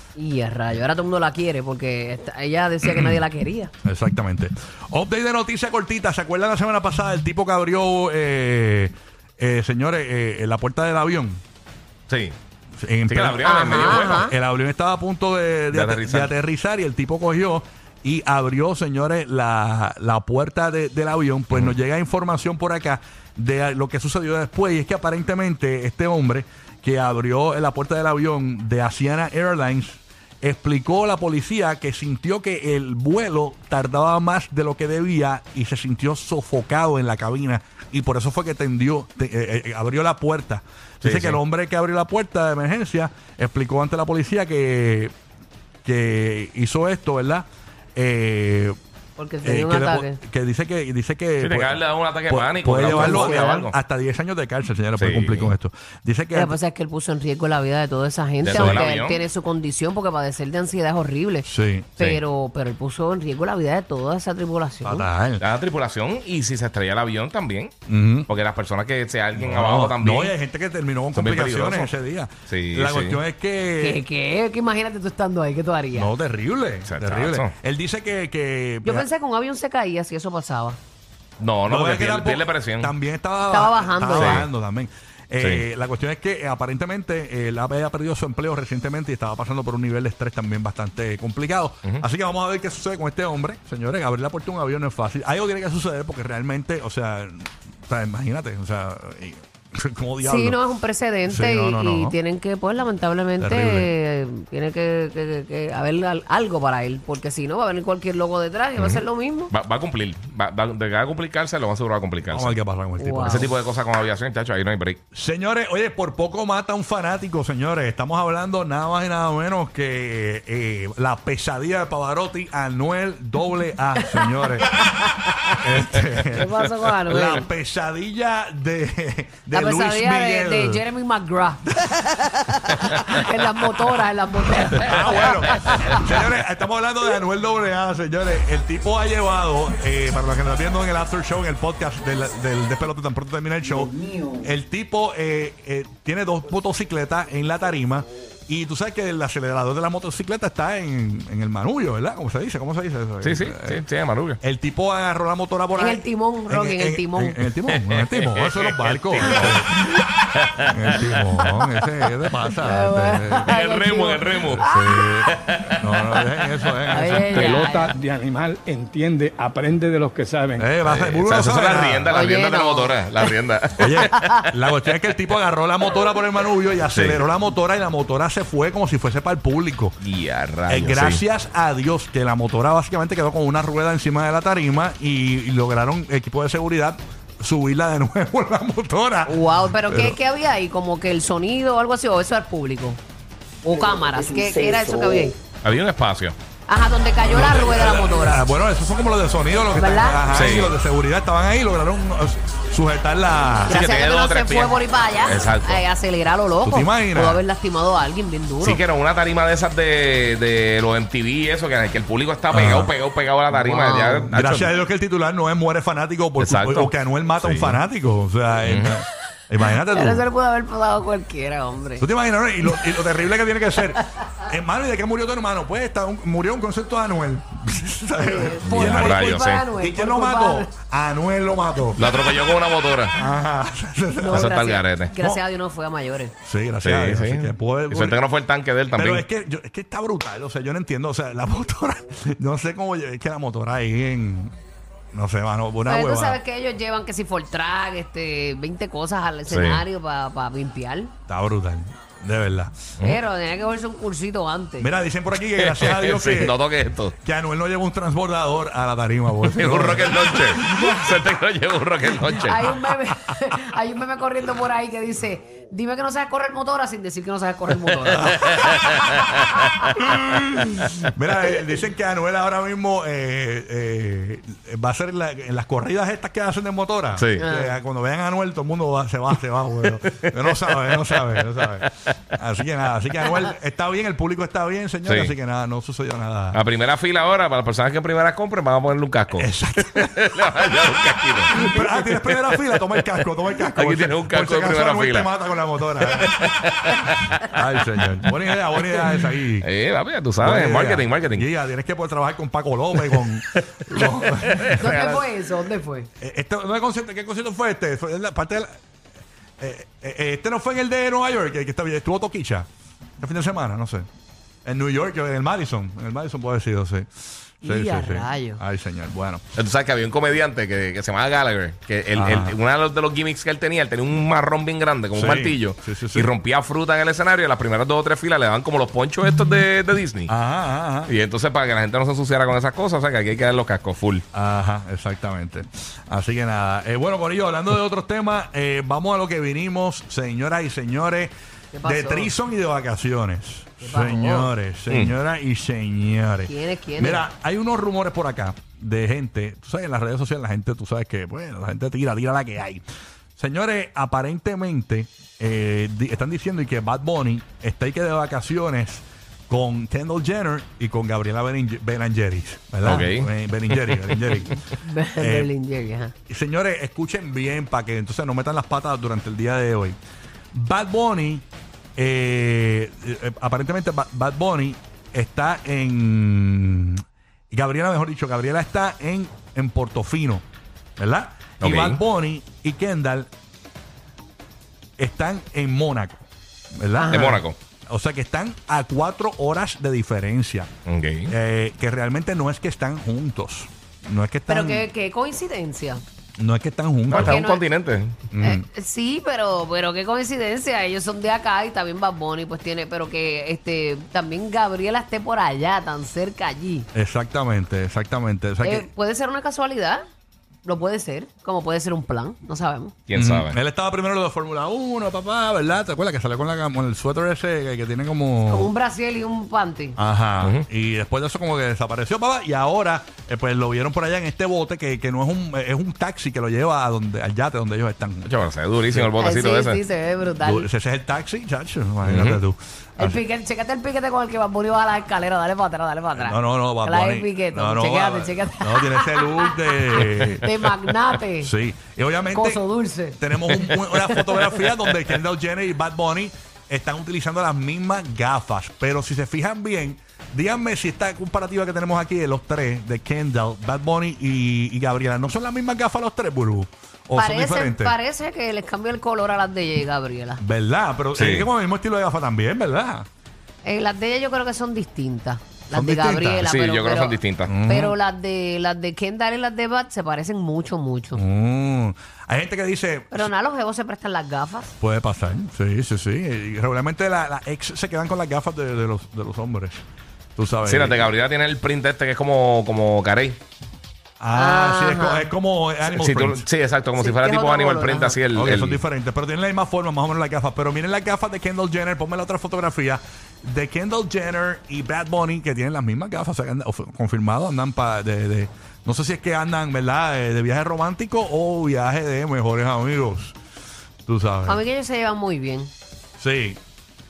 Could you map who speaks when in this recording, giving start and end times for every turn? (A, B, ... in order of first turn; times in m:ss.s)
0:00.2-0:03.7 A
0:03.8-0:11.4 B
0:12.1-0:12.4 C
0:12.8-0:45.1 B
0:13.1-0:14.3 C
0:13.4-0:14.4 A
0:15.7-0:16.3 C
0:21.5-0:21.8 C
0:41.0-0:41.4 C
0:45.8-0:48.8 B
0:49.2-0:50.2 A
0:49.4-0:56.6 B
0:51.4-0:53.8 C
0:52.8-0:53.6 A
0:55.0-0:55.6 C
0:56.3-1:05.1 A
0:58.4-0:59.2 C
0:58.4-0:58.9 B
1:01.4-1:01.9 B
1:04.8-1:05.4 B
1:05.4-1:07.7 C
1:07.9-1:08.3 B
1:08.2-1:10.4 C
1:09.4-1:14.0 B
1:11.1-1:11.9 C
1:12.5-1:13.2 C
1:13.8-1:16.1 A
1:15.9-1:19.1 B
1:16.9-1:17.5 C
1:18.8-1:20.8 A
1:21.4-1:22.9 C
1:21.7-1:40.6 B
1:23.5-1:24.4 A
1:24.1-1:24.5 C
1:25.4-1:25.6 C
1:40.2-1:49.5 A
1:41.3-1:42.2 B
1:43.4-1:43.9 B
1:48.8-1:52.6 C
1:52.3-1:53.5 B
1:53.0-1:53.5 A
1:53.2-1:55.0 C
1:55.1-2:04.8 B
2:04.0-2:05.6 A
2:05.6-2:10.8 B
2:06.3-2:07.5 A
2:09.5-2:16.1 A
2:14.8-2:33.8 B
2:33.2-2:34.4 C
2:34.4-2:39.8 B
2:35.8-2:37.5 A
2:37.8-2:39.7 C
2:40.3-2:41.4 C
2:40.6-2:43.6 B
2:42.6-2:45.3 A
2:43.5-2:44.7 C
2:44.5-2:47.5 B
2:45.3-2:45.7 C
2:46.8-2:47.9 A
2:47.3-2:50.7 D
2:50.6-2:52.2 B
2:50.8-2:54.3 C
2:52.1-2:53.3 A
2:53.8-3:00.0 B
2:54.1-2:54.4 A
2:56.9-2:57.2 C
3:00.0-3:01.2 C
3:00.7-3:10.2 B
3:09.3-3:13.0 A
3:13.6-3:15.4 A
3:15.6-3:16.4 C
3:16.7-3:18.5 A
3:17.3-3:23.8 B
3:17.7-3:18.0 C
3:19.8-3:20.4 A
3:20.3-3:20.8 C
3:23.7-3:28.8 A
3:23.7-3:25.8 C
3:26.6-3:27.4 B
3:28.6-3:34.7 C
3:32.5-3:32.9 B
3:33.5-3:34.3 A
3:34.3-3:40.2 B
3:36.4-3:37.8 C
3:38.7-3:39.0 C
3:39.9-3:42.1 A
3:42.0-3:52.1 B
3:48.2-3:50.7 A
3:48.7-3:49.6 C
3:52.0-3:53.2 C
3:53.1-3:54.5 B
3:54.2-3:56.3 A
3:54.3-3:55.1 C
3:55.2-3:55.4 B
3:56.4-3:58.2 B
3:56.8-3:59.2 C
3:58.9-4:04.5 B
4:05.1-4:06.4 B
4:05.9-4:11.1 A
4:09.5-4:09.8 C
4:11.3-4:12.8 B
4:13.0-4:14.9 A
4:14.8-4:16.6 B
4:15.6-4:17.2 C
4:17.2-4:21.0 B
4:19.5-4:22.7 C
4:20.5-4:21.1 A
4:22.2-4:29.9 A
4:28.1-4:28.5 B
4:28.1-4:31.1 C
4:30.0-4:46.6 B
4:37.1-4:37.4 C
4:37.4-4:37.8 A
4:39.8-4:42.2 C
4:45.1-4:45.3 C
4:46.5-4:53.0 C
4:49.3-4:50.4 B
4:51.5-4:56.4 B
4:53.8-4:55.3 C
4:56.0-4:57.4 C
4:57.4-4:59.7 B
4:59.6-5:01.5 C
5:00.4-5:05.0 B
5:03.0-5:05.2 C
5:04.8-5:06.1 A
5:06.2-5:08.7 B
5:09.6-5:12.7 B
5:13.2-5:14.1 B
5:14.6-5:17.1 B
5:17.6-5:19.4 B
5:17.6-5:18.6 A
5:19.6-5:30.3 C
5:22.1-5:22.6 B
5:25.1-5:26.3 B
5:30.3-5:31.1 B
5:31.1-5:34.2 C
5:34.3-5:41.3 B
5:41.7-5:42.3 A
5:41.8-5:52.8 B
5:43.8-5:44.5 A
5:44.9-5:45.1 C
5:46.4-5:47.2 A
5:53.4-6:04.6 B
6:02.8-6:04.6 C
6:04.8-6:06.1 A
6:05.2-6:05.5 B
6:06.3-6:10.0 B
6:10.5-6:11.4 B
6:12.0-6:20.4 B
6:21.0-6:23.3 B
6:21.6-6:22.0 C
6:25.0-6:30.7 B
6:27.0-6:27.4 A
6:27.1-6:27.6 C
6:30.9-6:31.3 C
6:31.3-6:34.9 B
6:34.5-6:36.0 A
6:36.4-6:37.4 B
6:37.1-6:38.2 C
6:37.1-6:37.6 A
6:38.3-6:38.6 B
6:38.4-6:46.9 A
6:46.9-6:48.9 B
6:48.6-6:50.0 A
6:50.6-6:53.0 A
6:53.1-6:53.6 C
6:53.1-6:58.7 B
6:58.5-7:00.0 A
7:00.0-7:09.1 B
7:08.2-7:09.8 C
7:09.2-7:10.7 A
7:10.4-7:13.2 B
7:12.0-7:12.4 C
7:13.0-7:21.5 A
7:16.1-7:20.5 B
7:20.1-7:20.4 C
7:21.4-7:37.9 B
7:22.3-7:24.6 A
7:37.2-7:40.4 A
7:40.4-7:43.1 B
7:41.1-7:41.5 C
7:43.6-7:51.2 A
7:45.7-7:46.5 B
7:46.4-7:47.5 C
7:47.5-7:48.0 B
7:51.1-7:53.3 B
7:53.1-7:54.7 A
7:54.8-7:59.8 B
8:00.4-8:01.1 B
8:00.6-8:03.4 C
8:04.2-8:06.5 B
8:04.4-8:05.3 A
8:05.8-8:08.8 C
8:07.0-8:08.2 A
8:08.3-8:23.4 B
8:24.1-8:24.6 B
8:24.5-8:25.7 A
8:26.2-8:26.6 B